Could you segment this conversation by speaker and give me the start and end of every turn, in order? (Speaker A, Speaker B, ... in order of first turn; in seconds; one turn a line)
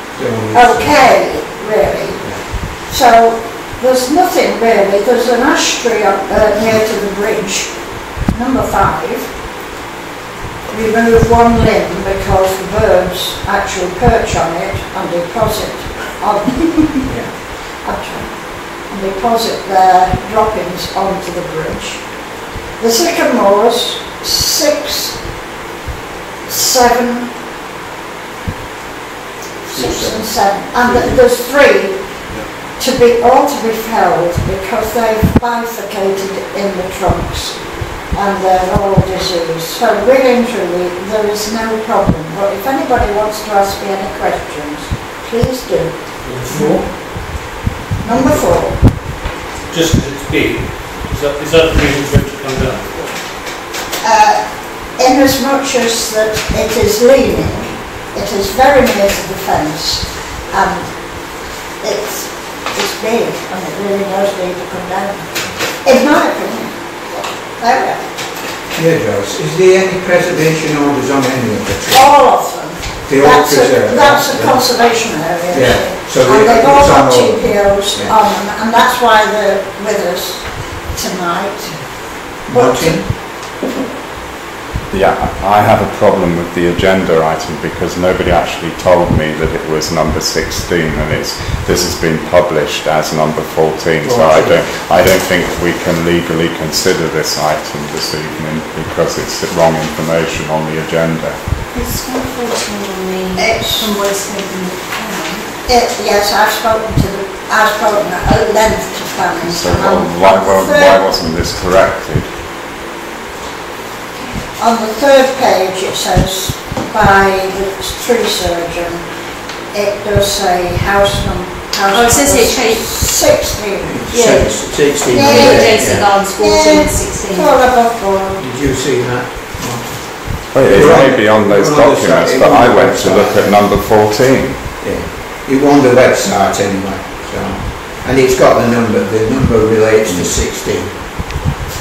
Speaker A: 0.1-1.1
Speaker B: 0.5-9.3
Speaker B: 10.7-25.2
Speaker A: 17.0-17.3
Speaker B: 26.4-27.3
Speaker A: 29.6-31.2
Speaker B: 29.7-46.0
Speaker C: 46.2-47.2
Speaker A: 46.5-46.8
Speaker B: 48.0-48.8
Speaker C: 49.7-53.2
Speaker B: 54.0-66.8
Speaker B: 67.5-68.0
Speaker A: 68.7-72.1
Speaker B: 71.9-81.7
Speaker A: 73.0-74.7
Speaker A: 75.5-78.2
Speaker A: 82.5-83.1
Speaker B: 82.5-83.0
Speaker D: 84.9-101.4
Speaker A: 94.0-94.6
Speaker E: 101.7-105.5
Speaker B: 103.3-103.9
Speaker B: 105.7-111.0
Speaker D: 109.4-112.3
Speaker B: 114.6-119.1
Speaker B: 119.7-124.0
Speaker E: 121.9-123.1
Speaker A: 123.8-126.1
Speaker E: 124.1-127.6
Speaker B: 125.1-128.4
Speaker A: 128.4-133.6
Speaker D: 130.5-134.6
Speaker A: 134.8-141.2